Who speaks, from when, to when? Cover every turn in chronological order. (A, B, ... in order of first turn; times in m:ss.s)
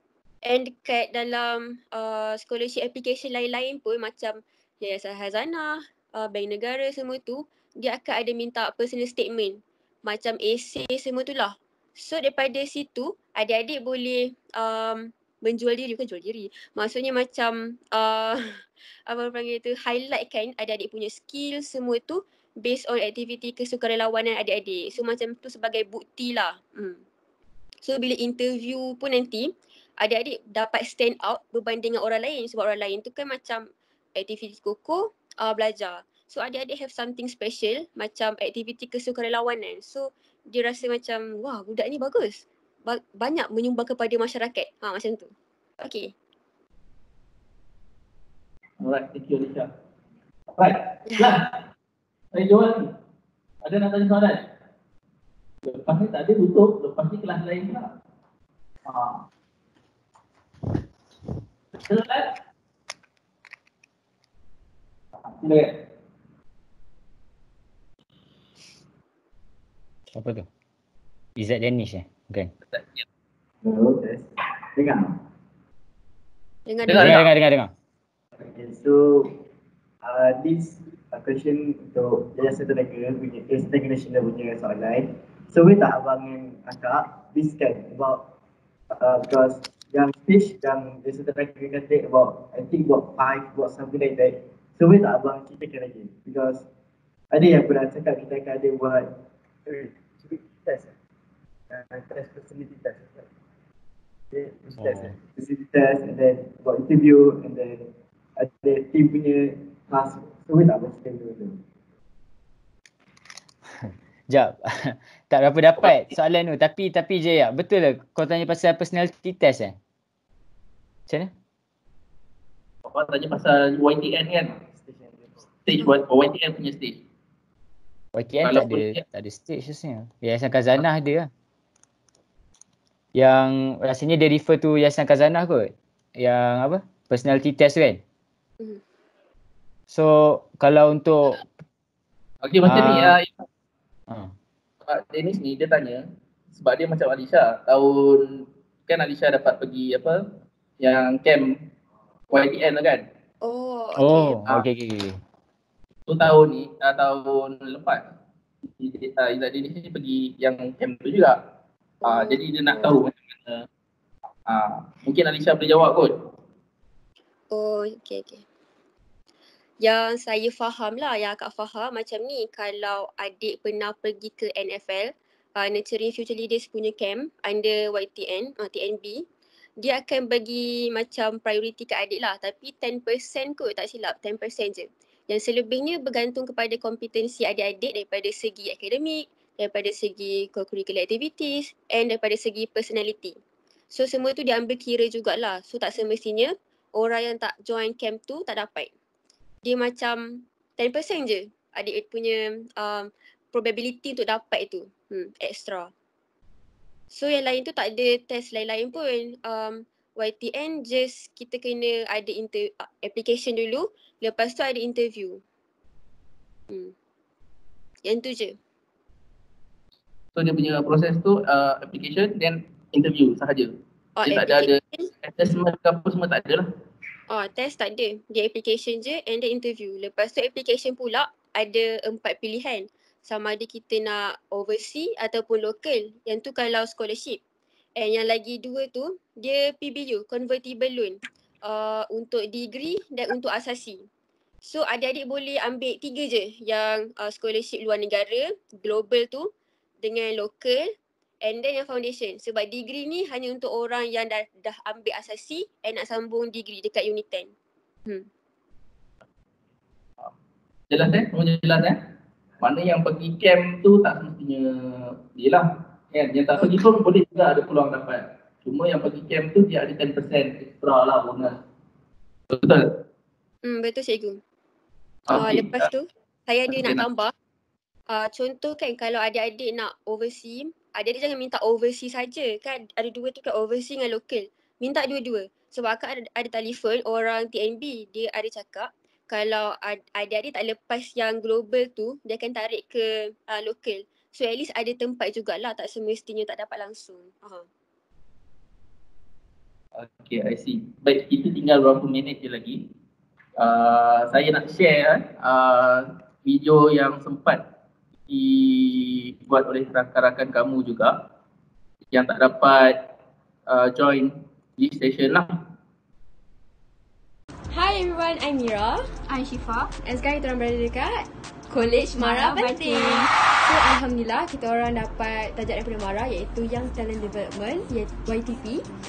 0:00.4-0:27.0 A
0:27.8-0:46.1 A
0:48.8-0:49.7 B
0:50.6-0:51.6 B
0:52.3-0:52.9 B
0:53.6-0:54.5 B
0:55.6-0:57.9 B
0:58.9-0:59.3 B
1:01.7-1:02.4 B
1:05.3-1:05.8 B
1:10.1-1:10.5 C
1:11.4-1:12.5 C
1:12.7-1:13.0 B
1:13.6-1:15.2 D
1:16.7-1:17.2 A
1:16.8-1:17.3 B
1:17.0-1:17.7 C
1:18.4-1:19.4 D
1:20.0-1:28.3 D
1:28.9-1:36.6 D
1:37.3-1:39.1 D
1:39.6-1:40.9 D
1:41.7-1:43.3 D
1:44.3-1:51.6 D
1:44.8-1:45.1 C
1:53.8-1:59.8 C
2:02.8-2:04.6 B
2:04.6-2:05.4 D
2:05.7-2:07.0 B
2:08.2-2:11.3 C
2:08.4-2:09.0 B
2:13.2-2:18.0 C
2:19.9-2:21.4 C
2:22.4-2:23.4 B
2:22.6-2:23.2 C
2:24.8-2:30.2 B
2:30.8-2:31.6 B
2:32.3-2:33.1 B
2:33.4-2:34.4 A
2:34.0-2:35.2 C
2:36.1-2:38.0 B
2:38.8-2:41.4 B
2:42.0-2:42.9 A
2:42.0-2:43.7 B
2:44.5-2:46.2 B
2:47.5-2:48.4 A
2:49.8-2:59.2 A
2:59.8-3:13.4 A
3:13.9-3:18.9 A
3:19.6-3:25.9 A
3:27.1-3:35.4 A
3:38.0-3:38.6 A
3:40.4-3:46.7 B
3:44.2-3:45.1 A
3:47.3-3:57.4 A
3:58.0-4:04.1 A
4:04.6-4:09.5 A
4:10.0-4:17.5 A
4:20.9-4:22.0 B
4:22.6-4:31.6 B
4:32.5-4:33.0 B
4:33.6-4:34.4 A
4:35.3-4:35.9 B
4:35.3-4:37.3 A
4:36.7-4:37.0 B
4:38.1-4:57.6 A
5:00.0-5:02.9 B
5:03.6-5:07.7 B
5:08.3-5:11.2 B
5:12.1-5:13.1 B
5:13.7-5:15.6 B
5:17.7-5:19.2 E
5:19.2-5:19.9 F
5:20.0-5:28.9 E
5:22.0-5:23.3 F